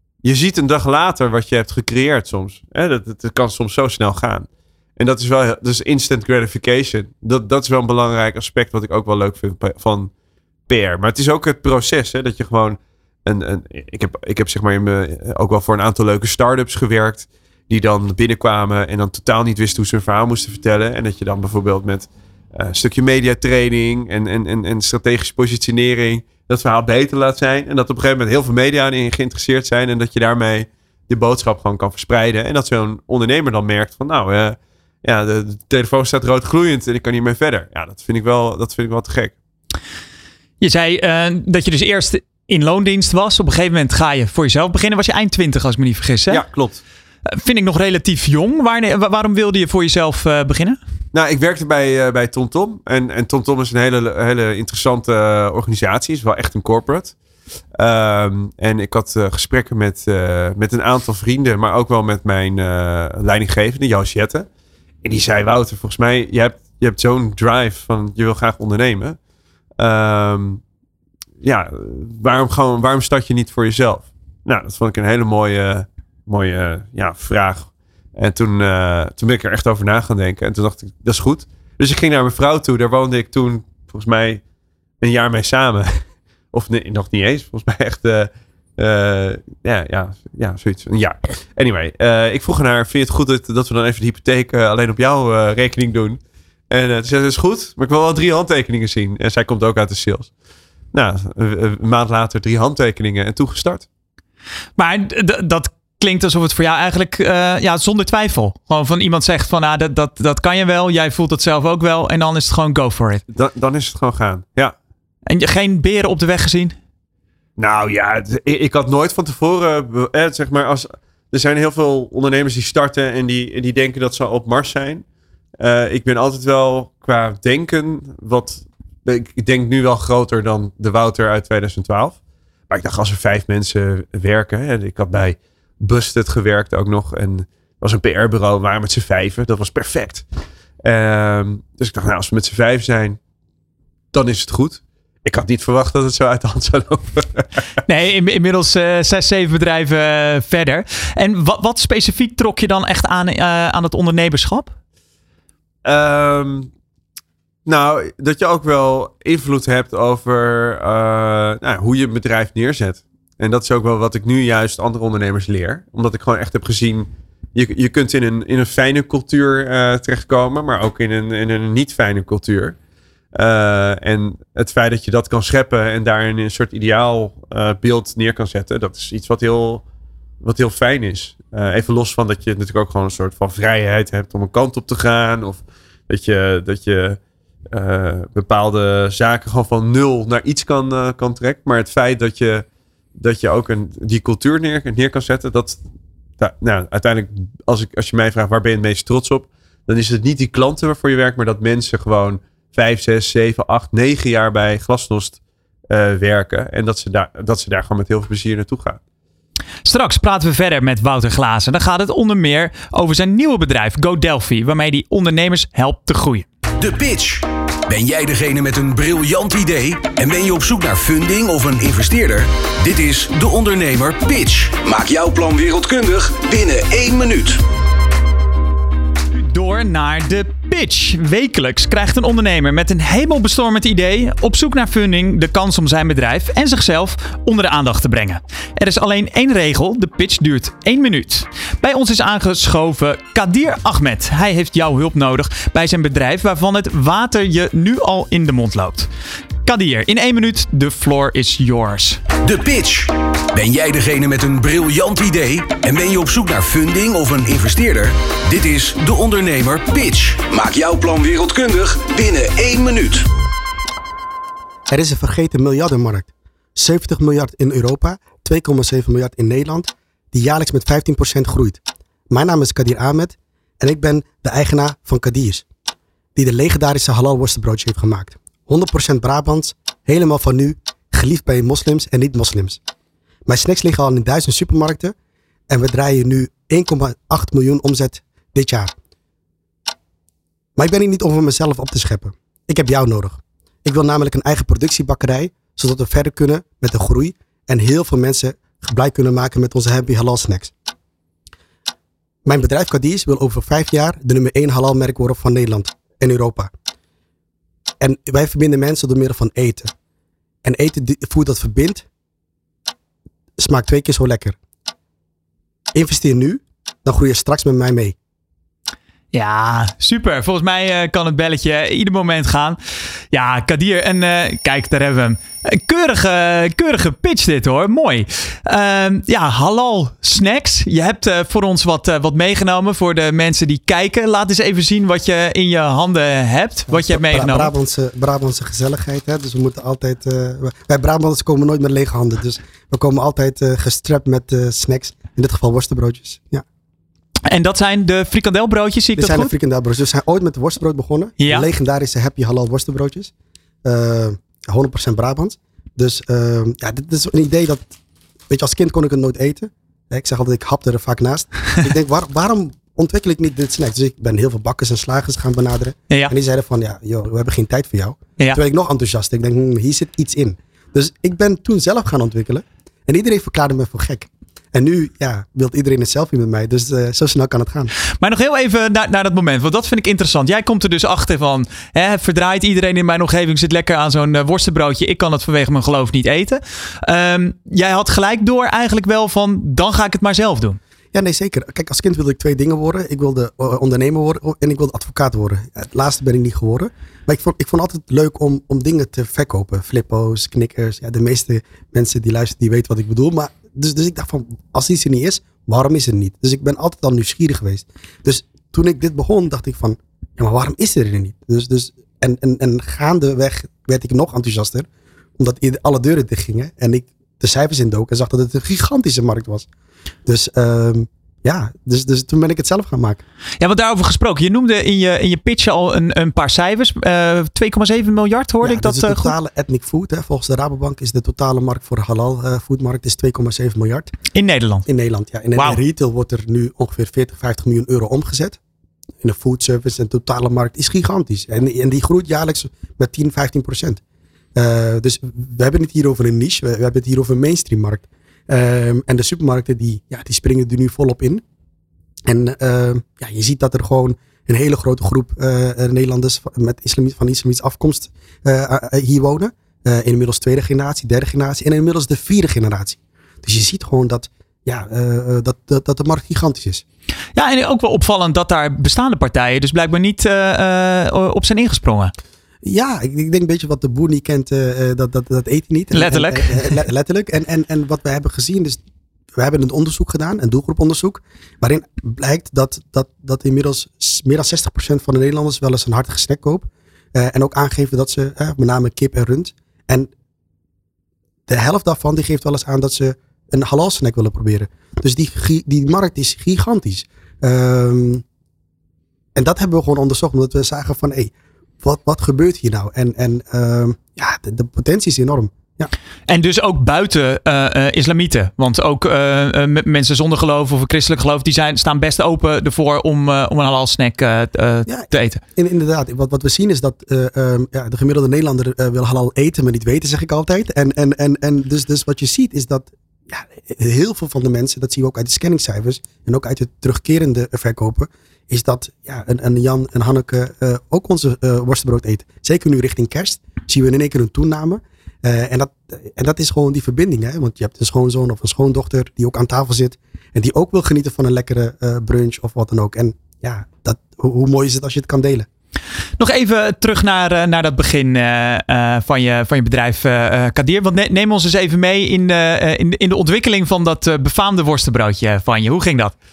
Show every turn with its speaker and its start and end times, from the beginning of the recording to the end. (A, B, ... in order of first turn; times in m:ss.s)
0:00.2-0:10.1 A
0:10.7-0:39.4 A
0:40.6-0:46.4 B
0:46.3-0:46.8 A
0:47.3-0:50.8 B
0:51.1-0:57.2 A
0:57.8-1:04.5 A
1:05.0-1:09.2 A
1:09.8-1:10.6 A
1:11.4-1:24.4 A
1:25.0-1:40.3 A
1:40.9-1:43.9 A
1:44.8-1:53.2 B
1:53.3-1:54.8 A
1:55.3-1:56.8 B
1:57.6-2:05.0 A
2:05.6-2:12.2 A
2:12.7-2:20.2 A
2:20.8-2:23.2 A
2:24.1-2:27.6 A
2:27.9-2:34.7 B
2:35.8-2:36.7 A
2:37.7-2:52.8 A
2:53.4-2:59.8 A
3:00.4-3:15.8 A
3:16.4-3:29.0 A
3:29.8-3:36.5 B
3:36.8-3:47.6 C
3:49.3-4:09.1 B
4:09.6-4:12.2 B
4:12.4-4:23.3 C
4:24.9-4:35.7 D
4:36.4-4:42.8 D
4:43.5-4:45.2 D
4:45.7-4:48.9 D
4:50.8-5:00.7 D
5:02.4-5:06.7 D
5:08.0-5:09.9 D
5:10.6-5:12.0 D
5:13.6-5:14.6 D
5:15.9-5:18.2 D
5:19.3-5:22.8 B
5:23.3-5:37.7 B
5:36.9-5:46.6 D
5:47.5-5:49.5 B
5:49.2-5:53.3 D
5:51.4-5:51.7 B
5:53.8-5:57.9 D
5:58.5-6:17.9 D
6:18.2-6:30.8 B
6:31.1-6:54.9 D
6:55.4-6:59.7 D
7:00.3-7:03.2 D
7:03.6-7:09.3 B
7:08.6-7:14.1 D
7:14.3-7:14.9 B
7:14.9-7:18.6 D
7:15.6-7:15.8 B
7:19.2-7:24.0 D
7:24.6-7:31.4 D
7:32.3-7:46.8 D
7:47.4-7:52.1 B
7:52.6-7:58.8 D
7:55.9-7:56.8 B
7:59.4-8:10.1 D
8:11.5-8:18.2 D
8:19.4-8:25.9 D
8:26.3-8:35.4 B
8:34.9-9:05.5 D
9:06.2-9:16.2 B